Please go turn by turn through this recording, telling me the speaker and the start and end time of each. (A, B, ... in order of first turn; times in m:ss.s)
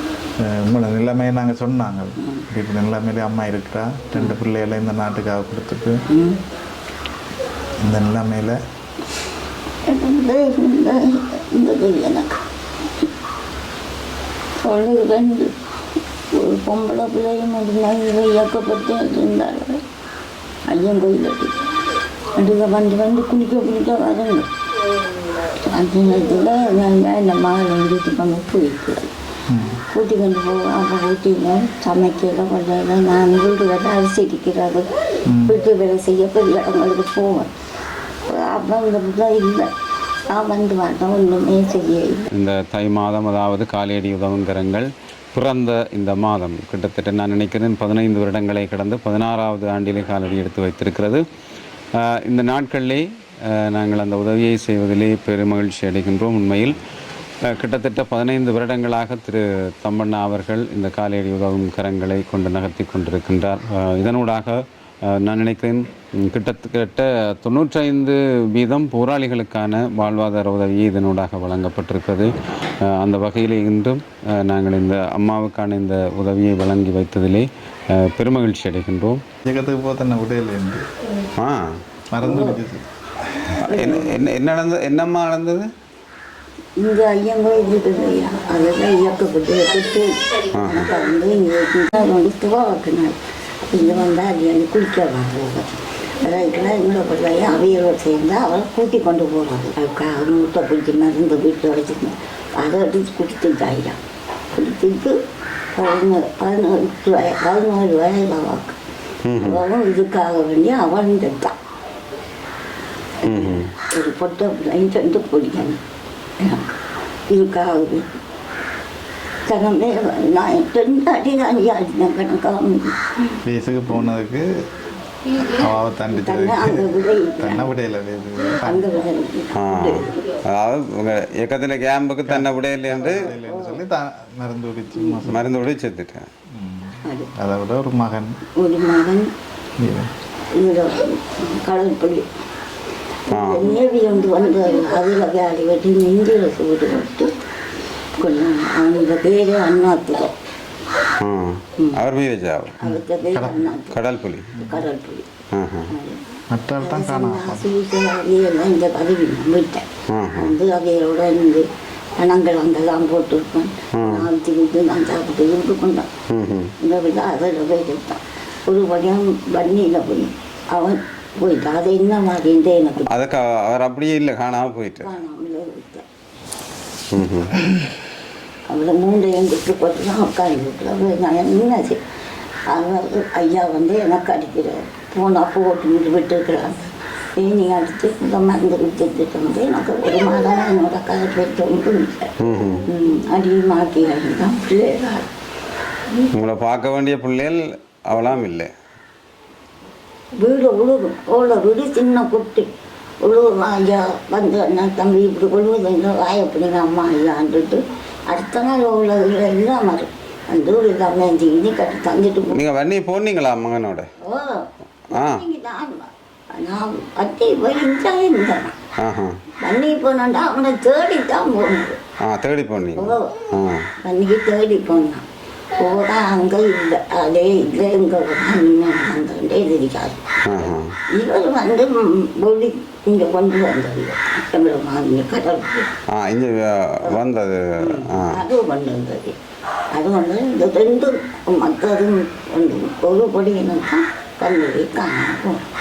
0:00.4-0:06.0 A
0:06.1-0:06.4 B
0:07.8-0:08.6 A
0:09.9-0:12.4 B
0:14.6-0:15.5 B
0:16.3-0:19.8 B
0:20.7-0:21.6 B
0:22.4-0:24.5 B
0:25.4-0:29.1 B
0:29.5-0:29.8 A
0:29.9-0:34.9 B
0:35.3-0:35.6 A
0:35.4-0:37.6 B
0:38.3-0:39.7 B
0:40.3-0:42.3 B
0:42.3-0:51.2 C
0:52.2-0:56.8 C
0:57.5-1:12.3 C
1:12.8-1:19.2 C
1:19.5-1:20.8 A
1:22.1-1:22.8 A
1:22.2-1:22.6 B
1:23.6-1:24.2 B
1:23.6-1:25.7 C
1:26.8-1:44.0 B
1:30.6-1:30.8 C
1:44.5-1:45.2 B
1:45.7-1:48.8 B
1:49.2-1:49.6 C
1:49.4-1:51.6 B
1:53.2-1:55.8 B
1:53.2-1:53.7 C
1:56.4-1:58.1 B
1:59.5-2:03.4 B
2:03.4-2:04.5 A
2:05.3-2:08.9 A
2:06.1-2:07.7 B
2:08.6-2:10.1 B
2:09.6-2:13.3 C
2:12.3-2:15.6 A
2:13.3-2:13.8 B
2:15.0-2:15.3 B
2:15.3-2:16.3 C
2:16.5-2:18.4 A
2:17.1-2:17.3 B
2:18.6-2:19.3 B
2:19.8-2:20.1 A
2:20.5-2:22.3 B
2:23.3-2:23.6 C
2:23.3-2:27.3 B
2:28.2-2:30.4 B
2:31.2-2:32.9 C
2:31.8-2:32.0 B
2:32.8-2:34.0 B
2:33.3-2:33.7 A
2:33.9-2:34.5 C
2:34.6-2:35.3 B
2:35.5-2:35.9 C
2:35.9-2:41.7 B
2:36.5-2:37.7 A
2:40.1-2:40.6 C
2:42.2-2:46.1 B
2:43.9-2:44.3 C
2:46.3-2:46.7 C
2:46.8-2:53.1 B
2:53.1-2:55.1 C
2:55.0-2:56.0 B
2:57.1-2:57.8 C
2:58.7-3:02.0 B
3:02.7-3:12.3 B
3:12.4-3:12.8 C
3:12.9-3:15.3 B
3:16.3-3:18.7 C
3:20.4-3:22.7 B
3:23.2-3:32.6 B
3:32.5-3:34.1 C
3:34.2-3:38.8 B
3:35.1-3:35.4 C
3:39.0-3:39.4 C
3:39.6-3:42.0 B
3:42.2-3:43.9 C
3:43.0-3:43.3 B
3:44.0-3:55.9 B
3:50.5-3:51.0 C
3:56.1-3:58.4 C
3:57.8-3:59.4 B
3:59.9-4:05.6 B